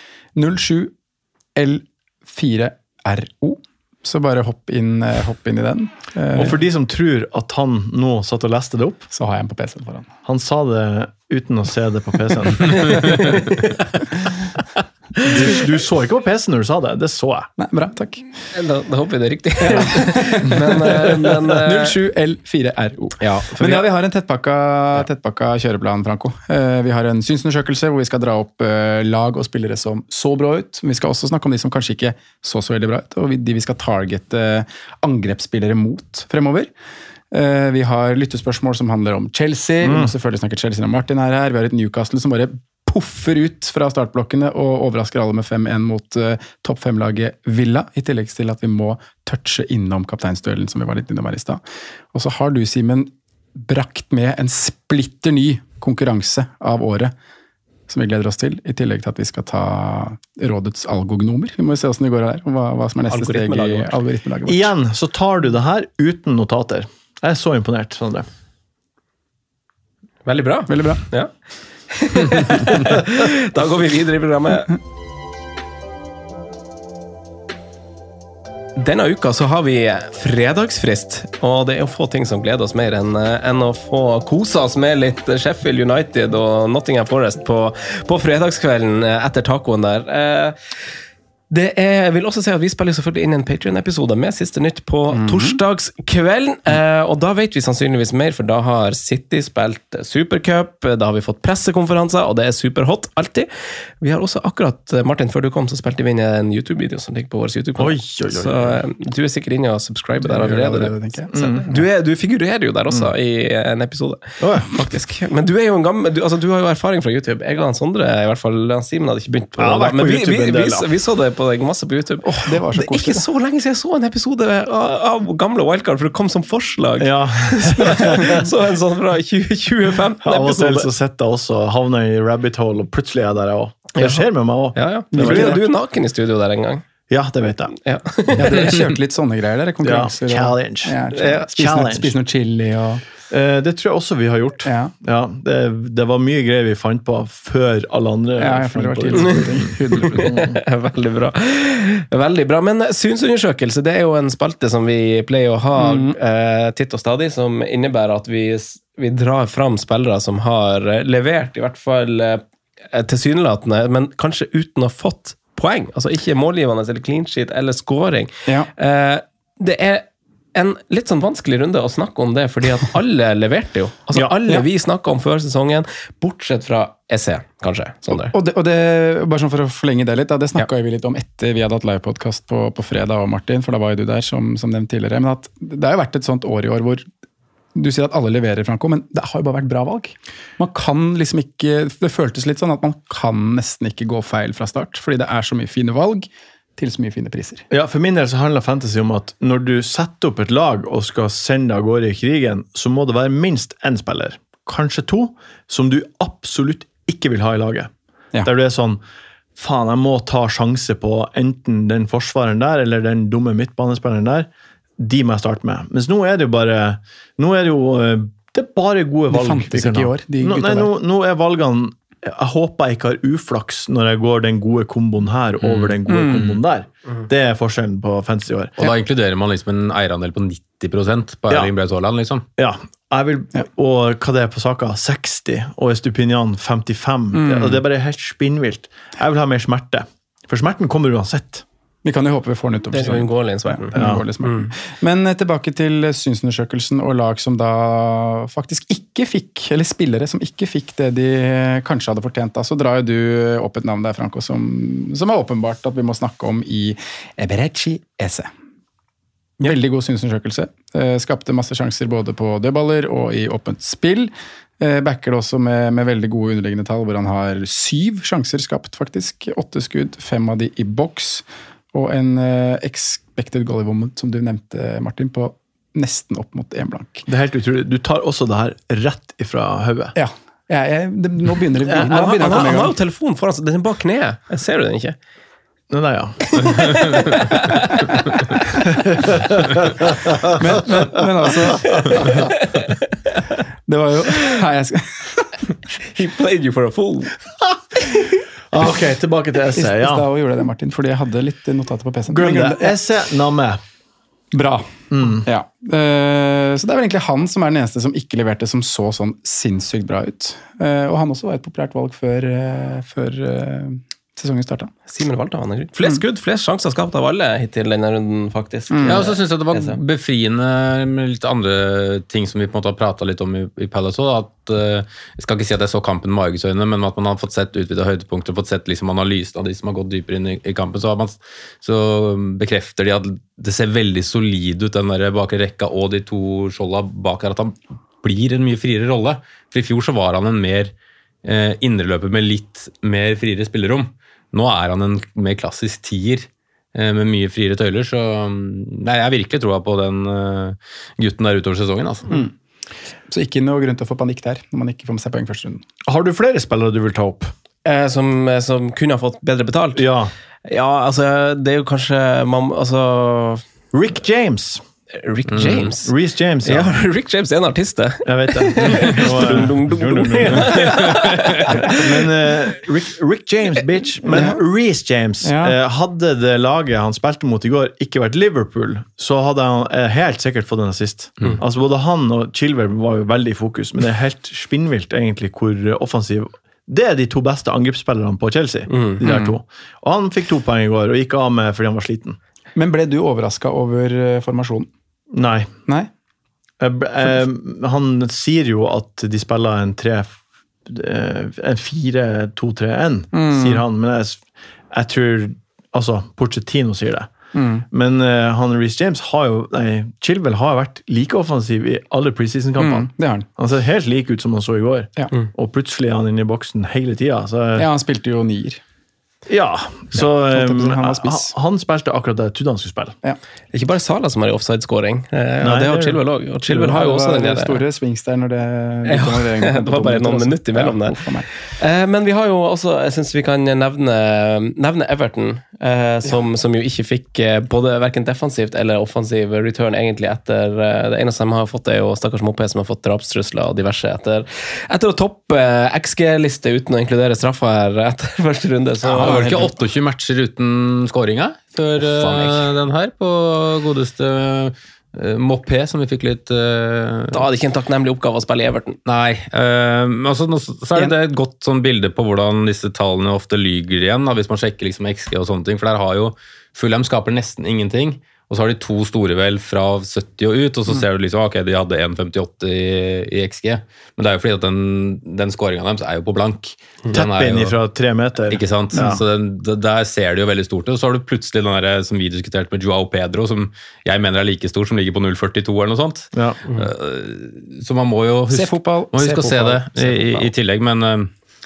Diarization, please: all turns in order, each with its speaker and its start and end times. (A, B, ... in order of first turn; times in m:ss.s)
0:00.4-0:00.9 A
0:01.6-0:06.6 A
0:06.3-0:09.1 B
0:09.1-0:10.1 A
0:10.2-0:13.3 B
0:13.2-0:13.8 C
0:15.2-0:17.5 B
0:17.6-0:18.3 A
0:18.5-0:22.0 C
0:19.6-0:36.7 A
0:23.2-0:23.9 C
0:37.3-0:51.6 A
0:39.8-0:40.1 B
0:52.1-0:57.1 A
0:57.9-1:04.8 A
1:03.1-1:04.0 C
1:04.5-1:08.3 B
1:10.3-1:11.3 C
1:10.7-1:11.0 A
1:11.9-1:14.8 C
1:18.8-1:30.6 C
1:31.5-1:43.5 C
1:35.1-1:35.6 A
1:44.0-2:10.9 C
1:47.8-1:48.8 B
1:50.2-1:51.3 A
1:51.3-1:51.8 B
1:54.4-1:54.8 B
1:59.6-2:00.9 B
2:02.2-2:03.3 A
2:07.0-2:08.5 B
2:10.2-2:15.7 B
2:14.0-2:16.8 C
2:15.1-2:15.6 A
2:17.1-2:17.7 B
2:17.8-2:18.8 C
2:18.4-2:23.0 A
2:19.8-2:22.2 B
2:21.1-2:21.4 C
2:23.3-2:30.6 B
2:24.6-2:24.9 A
2:28.4-2:30.3 A
2:29.9-2:58.3 C
2:35.8-2:36.2 A
2:58.1-3:07.1 A
3:07.8-3:17.7 A
3:17.7-3:27.9 B
3:28.4-3:29.0 B
3:29.6-3:48.8 B
3:39.3-3:40.9 A
3:45.6-3:46.6 D
3:46.1-3:46.5 A
3:48.8-3:52.4 D
3:52.6-4:01.6 B
3:57.3-3:57.8 A
4:02.0-4:18.5 A
4:02.9-4:04.7 C
4:04.0-4:04.2 B
4:19.6-4:37.3 A
4:37.3-4:40.1 B
4:40.2-4:43.0 A
4:42.0-4:45.2 C
4:45.9-4:47.0 B
4:46.6-4:48.0 C
4:49.2-4:50.5 B
4:50.6-4:52.3 A
4:53.9-4:55.7 A
4:56.0-4:57.3 C
4:58.7-5:00.2 B
4:59.8-5:03.0 A
5:02.3-5:03.8 B
5:04.5-5:14.9 A
5:05.1-5:05.5 B
5:15.1-5:20.0 C
5:18.9-5:19.4 A
5:19.0-5:40.9 D
5:41.4-5:52.3 D
5:52.3-5:52.5 A
5:53.3-5:55.8 A
5:56.1-5:57.5 B
5:57.8-6:00.0 C
6:00.0-6:00.3 B
6:00.7-6:03.6 C
6:03.9-6:04.8 B
6:05.1-6:06.1 C
6:05.5-6:05.9 D
6:06.0-6:07.0 B
6:06.6-6:12.1 C
6:08.2-6:11.2 B
6:11.8-6:32.4 B
6:14.3-6:14.6 A
6:15.4-6:15.8 A
6:28.9-6:29.2 C
6:29.2-6:29.6 A
6:32.8-6:34.9 A
6:35.3-6:35.7 B
6:36.8-6:47.3 B
6:43.3-6:43.8 A
6:47.5-6:47.8 A
6:47.9-6:57.9 B
6:52.8-6:53.5 A
6:57.8-6:58.8 A
6:59.5-7:03.2 B
7:00.1-7:01.5 A
7:03.7-7:07.8 C
7:05.6-7:06.2 B
7:06.7-7:11.5 A
7:09.1-7:29.7 C
7:29.0-7:29.7 A
7:29.2-7:37.5 D
7:32.0-7:32.7 C
7:37.3-7:39.0 C
7:39.1-7:57.8 D
7:57.1-7:59.2 B
7:58.5-8:11.3 D
8:06.3-8:06.6 B
8:08.5-8:10.5 A